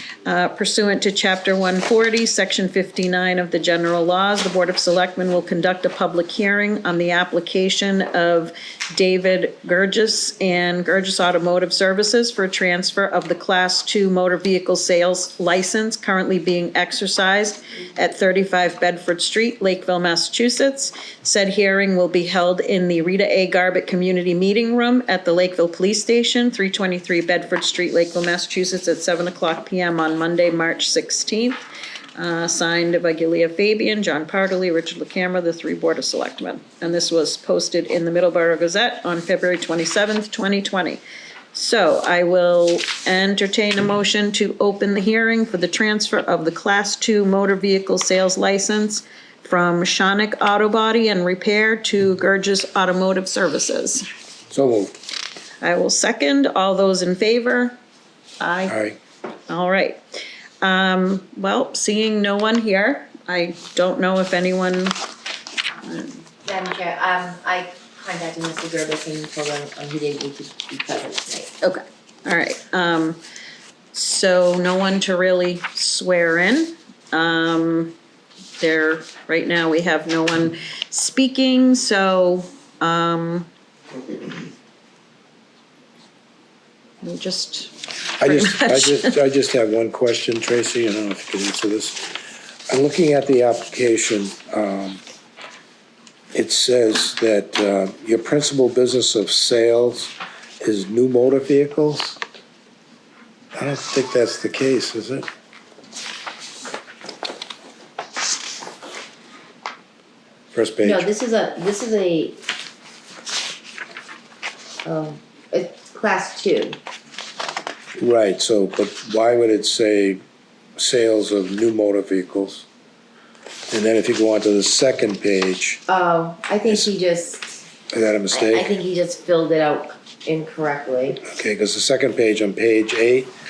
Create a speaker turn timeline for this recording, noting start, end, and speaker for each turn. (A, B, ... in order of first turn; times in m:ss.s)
0:00.2-0:31.6 A
0:32.2-0:41.0 A
0:41.5-0:54.1 A
0:54.5-0:54.9 B
0:55.6-0:57.8 A
0:58.4-0:58.8 A
0:58.7-0:59.0 B
0:59.5-1:00.0 A
1:00.6-1:05.0 A
1:05.8-1:06.2 A
1:06.4-1:11.5 C
1:11.6-1:13.2 A
1:13.9-1:17.9 A
1:18.6-1:23.5 A
1:27.0-1:29.2 A
1:28.2-1:35.0 B
1:36.3-1:42.2 B
1:43.5-1:45.3 B
1:50.5-1:51.1 B
1:50.8-1:52.4 C
1:54.8-1:56.8 C
1:58.0-2:00.2 B
2:00.8-2:02.7 B
2:03.7-2:05.8 B
2:05.9-2:07.6 C
2:07.9-2:08.7 B
2:08.3-2:11.2 C
2:11.2-2:13.3 B